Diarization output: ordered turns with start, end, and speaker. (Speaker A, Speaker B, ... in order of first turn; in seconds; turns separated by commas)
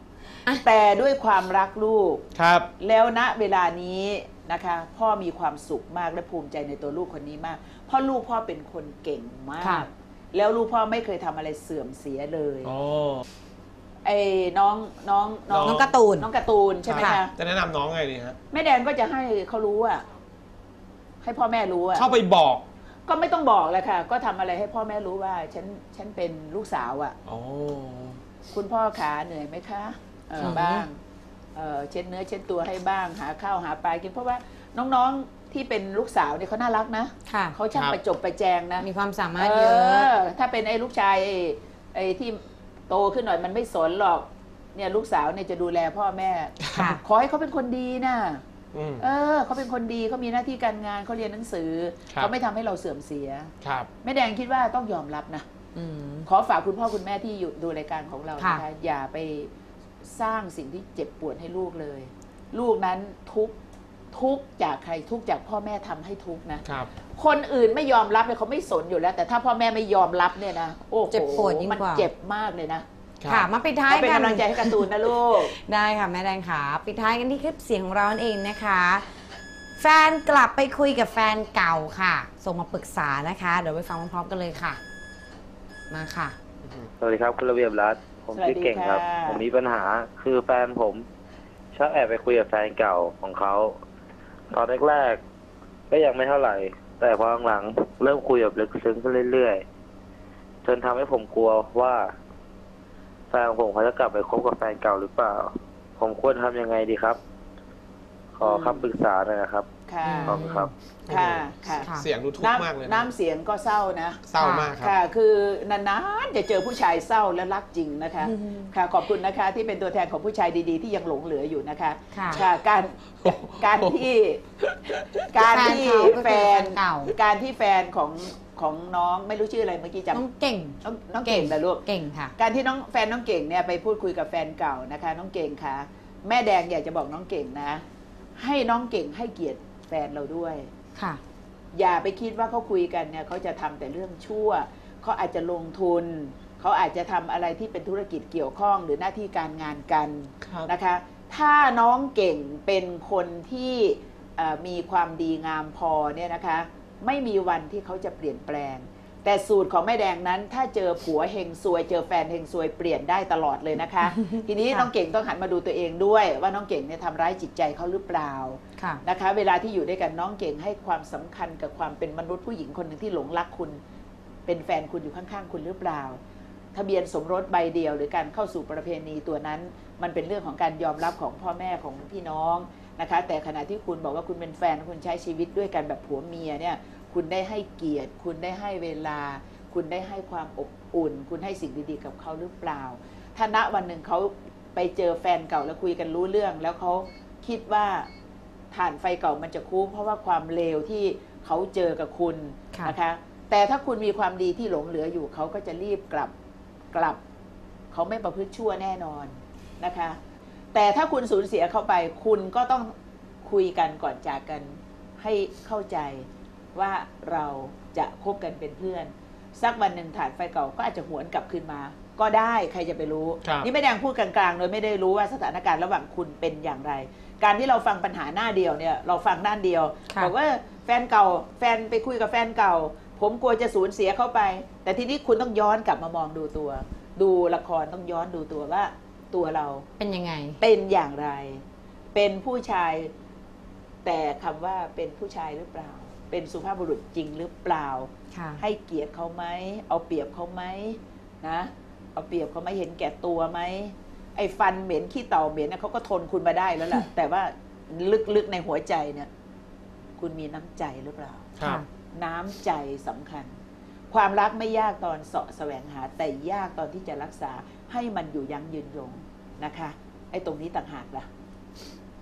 Speaker A: 0.6-2.2, Speaker B: 2.3-2.7, Speaker A: 2.8-12.7, Speaker C: 9.6-9.8, Speaker B: 12.6-13.2, Speaker A: 14.0-17.3, Speaker B: 15.5-15.9, Speaker C: 15.6-16.3, Speaker B: 16.9-18.4, Speaker C: 16.9-17.2, Speaker A: 18.5-20.0, Speaker A: 21.2-22.1, Speaker B: 21.9-22.6, Speaker A: 23.1-27.1, Speaker B: 27.2-28.2, Speaker A: 28.5-31.0, Speaker C: 30.4-30.9, Speaker A: 31.6-48.4, Speaker C: 37.3-37.5, Speaker B: 37.7-38.0, Speaker C: 38.8-40.1, Speaker B: 46.6-46.9, Speaker C: 46.7-47.0, Speaker B: 48.7-49.0, Speaker A: 49.0-55.5, Speaker B: 53.6-53.9, Speaker C: 55.7-56.3, Speaker A: 56.2-59.5, Speaker C: 58.4-58.6, Speaker A: 60.0-63.5, Speaker A: 64.1-72.8, Speaker C: 71.1-72.1, Speaker B: 73.2-73.5, Speaker C: 73.3-74.9, Speaker A: 73.9-75.5, Speaker C: 75.5-79.0, Speaker C: 79.8-84.8, Speaker C: 85.9-86.3, Speaker B: 86.6-86.9, Speaker D: 87.0-91.0, Speaker A: 88.3-89.4, Speaker D: 91.7-93.8, Speaker D: 94.5-95.2, Speaker D: 95.9-99.6, Speaker D: 100.6-102.1, Speaker D: 103.3-107.2, Speaker D: 108.3-109.7, Speaker A: 108.4-108.8, Speaker A: 109.9-110.4, Speaker C: 110.0-110.7, Speaker D: 110.2-110.7, Speaker B: 111.0-113.1, Speaker A: 111.1-114.2, Speaker B: 114.3-114.9, Speaker C: 114.4-114.7, Speaker A: 114.8-124.4, Speaker C: 118.2-118.7, Speaker C: 122.1-122.4, Speaker B: 123.2-124.0, Speaker B: 124.6-125.3, Speaker A: 125.2-130.2, Speaker C: 125.3-127.1, Speaker C: 130.1-132.3, Speaker A: 130.8-137.8, Speaker A: 138.4-140.7, Speaker C: 140.9-141.2, Speaker A: 141.7-173.8, Speaker B: 150.4-150.7, Speaker A: 174.4-176.2, Speaker A: 176.7-198.1, Speaker A: 198.7-206.3, Speaker A: 206.9-207.2, Speaker A: 207.9-210.2, Speaker A: 210.7-239.9, Speaker B: 223.4-223.7, Speaker C: 240.0-240.6, Speaker A: 240.6-243.1, Speaker A: 244.0-259.3, Speaker C: 248.3-248.6, Speaker A: 260.2-261.5, Speaker B: 261.6-261.8, Speaker C: 261.6-261.9, Speaker A: 262.1-263.5, Speaker A: 264.1-271.3